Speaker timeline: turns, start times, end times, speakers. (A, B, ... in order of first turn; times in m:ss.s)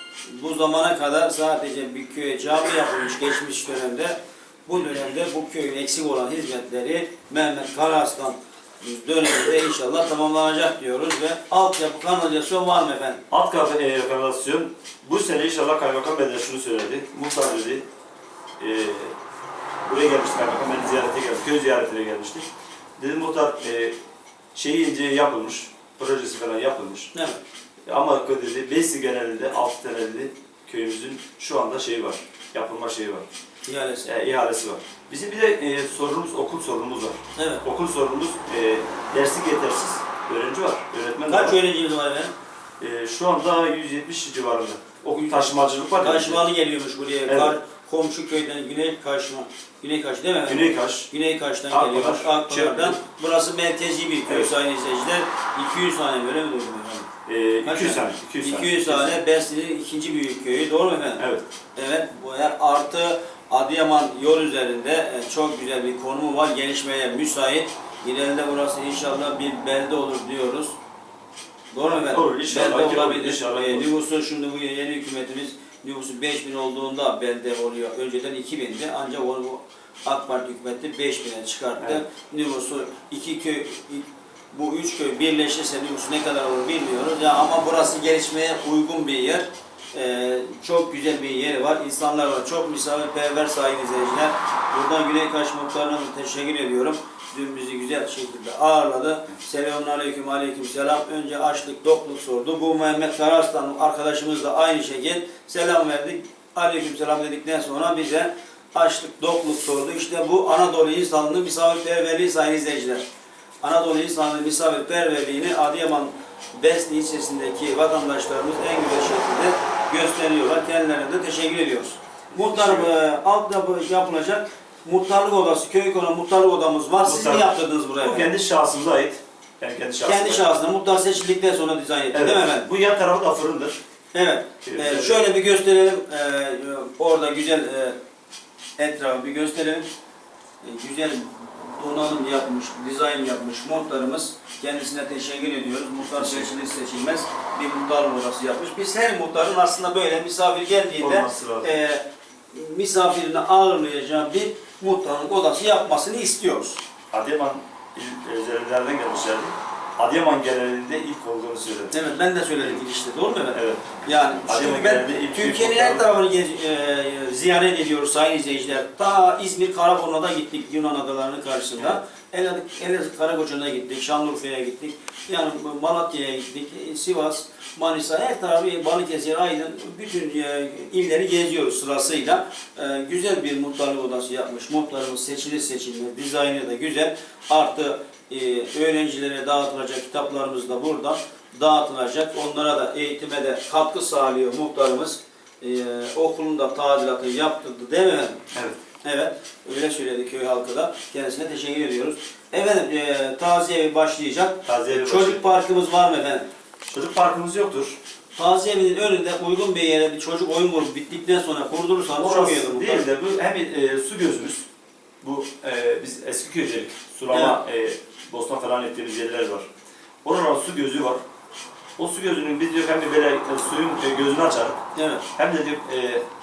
0:00.2-0:13.2 A
0:13.3-0:17.8 B
0:18.6-0:19.2 B
0:19.9-0:22.5 B
0:23.0-0:24.0 B
0:24.6-0:27.1 B
0:27.1-0:27.4 A
0:27.9-0:33.2 B
0:33.7-0:34.1 A
0:34.0-0:41.6 B
0:37.4-0:37.6 A
0:41.3-0:42.3 A
0:42.8-0:46.4 B
0:45.1-0:45.5 A
0:46.0-0:57.1 A
0:47.3-0:47.6 B
0:50.5-0:51.1 B
0:51.7-0:53.0 B
0:54.3-0:54.5 B
0:57.3-0:59.2 B
0:57.6-1:10.8 A
1:11.7-1:53.0 A
1:11.9-1:13.9 B
1:53.6-2:08.3 A
2:02.3-2:02.9 B
2:07.0-2:10.4 B
2:10.0-2:12.7 A
2:12.1-2:13.8 B
2:14.1-2:18.0 A
2:14.6-2:15.2 B
2:18.8-2:19.9 A
2:20.6-2:36.8 A
2:26.0-2:26.8 B
2:31.0-2:31.8 B
2:37.1-2:42.0 B
2:41.9-3:18.4 A
2:43.5-2:43.8 B
2:44.4-2:46.0 B
3:19.0-3:26.5 A
3:24.6-3:25.4 B
3:26.9-3:28.0 B
3:28.4-3:33.1 A
3:32.2-3:34.6 B
3:35.2-3:39.7 B
3:37.3-3:37.6 A
3:40.2-3:41.2 B
3:42.0-3:44.8 B
3:45.0-3:45.2 A
3:45.4-3:46.2 B